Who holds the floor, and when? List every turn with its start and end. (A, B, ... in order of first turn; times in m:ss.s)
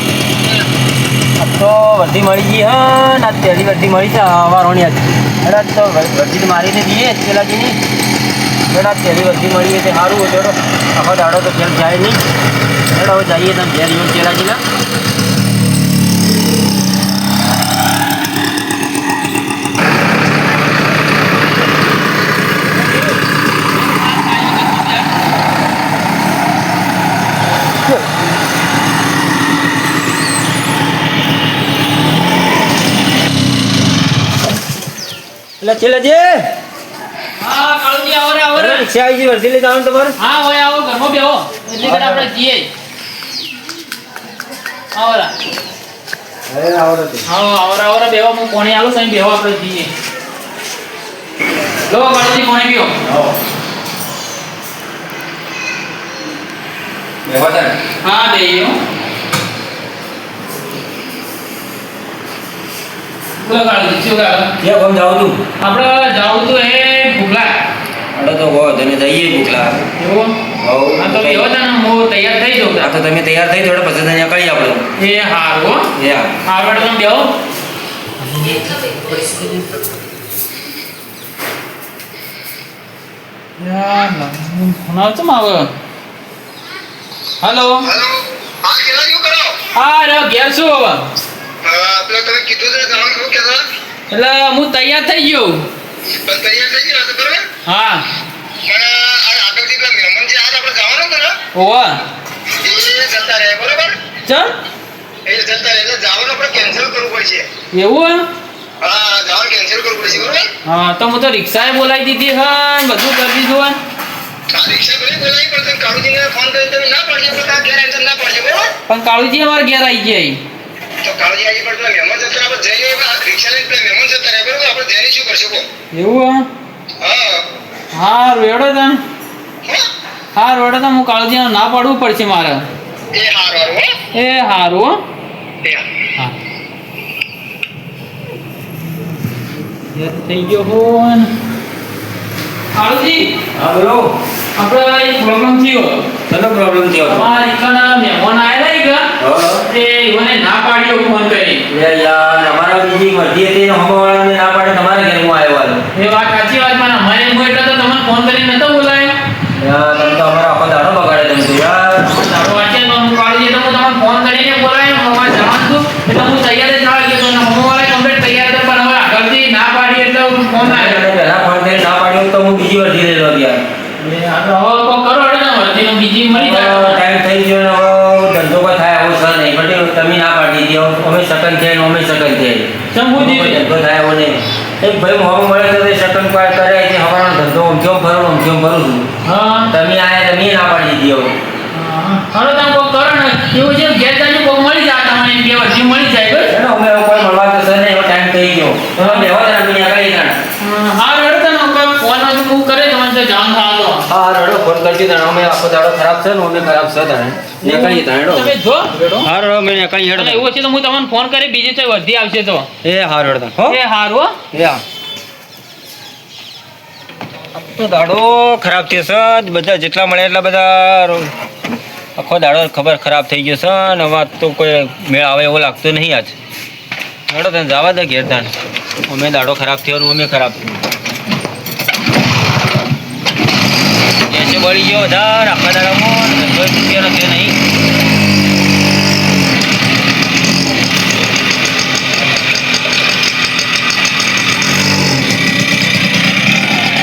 0:01.4-0:07.8 A
0:08.7-0:12.2 A
0:12.9-0:14.6 A
0:23.8-0:25.1 B
0:35.6-0:36.5 A
0:37.4-0:38.8 B
0:38.5-0:40.2 A
0:40.2-0:42.7 B
0:41.8-0:42.2 A
0:44.9-0:45.3 B
0:46.5-0:47.2 A
0:47.2-0:49.9 B
0:51.9-0:53.0 B
0:53.0-0:53.3 A
0:57.2-0:57.8 A
0:58.0-0:58.8 B
1:03.4-1:04.5 B
1:04.6-1:05.4 A
1:05.6-1:07.6 B
1:08.1-1:09.8 A
1:10.0-1:10.4 B
1:10.6-1:11.5 A
1:11.0-1:12.9 B
1:12.8-1:14.8 A
1:15.0-1:15.9 B
1:15.9-1:16.3 A
1:16.4-1:17.3 B
1:18.2-1:19.6 B
1:23.6-1:25.7 B
1:27.4-1:27.9 B
1:27.9-1:29.6 C
1:29.7-1:31.1 B
1:31.6-1:33.7 C
1:34.1-1:35.7 B
1:36.1-1:37.5 C
1:37.6-1:38.0 B
1:38.6-1:41.4 C
1:41.5-1:42.0 B
1:42.6-1:44.0 C
1:44.2-1:44.5 B
1:45.2-1:47.5 C
1:47.7-1:48.3 B
1:48.8-1:50.5 C
1:50.6-1:53.8 B
1:54.5-1:58.7 C
1:58.9-2:00.4 B
2:01.0-2:05.7 C
2:05.9-2:06.5 B
2:07.0-2:07.4 C
2:07.9-2:09.0 B
2:10.3-2:12.7 B
2:13.1-2:14.0 C
2:14.1-2:15.0 B
2:19.9-2:21.3 B
2:22.7-2:23.3 B
2:23.5-2:24.1 A
2:24.6-2:26.1 B
2:26.3-2:27.3 A
2:27.0-2:29.1 B
2:29.2-2:29.6 A
2:29.7-2:31.6 B
2:31.7-2:35.8 A
2:35.9-2:39.2 B
2:39.5-2:42.1 A
2:42.1-2:51.0 B
2:50.6-2:53.6 A
2:54.0-2:57.0 B
2:56.3-3:09.1 A
3:02.9-3:03.6 B
3:09.2-3:09.7 B
3:09.7-3:11.4 A
3:11.7-3:16.5 B
3:16.5-3:20.4 A
3:19.0-3:19.3 B
3:20.6-3:24.0 B
3:24.1-3:28.5 A
3:27.6-3:29.2 B
3:29.2-3:30.4 A
3:30.1-3:32.7 B
3:32.8-3:33.8 A
3:33.7-3:34.4 B
3:34.5-3:34.8 A
3:37.5-3:41.3 A
3:42.2-3:46.3 A
3:47.3-3:48.5 A
3:49.1-3:50.7 A
3:54.3-3:57.6 A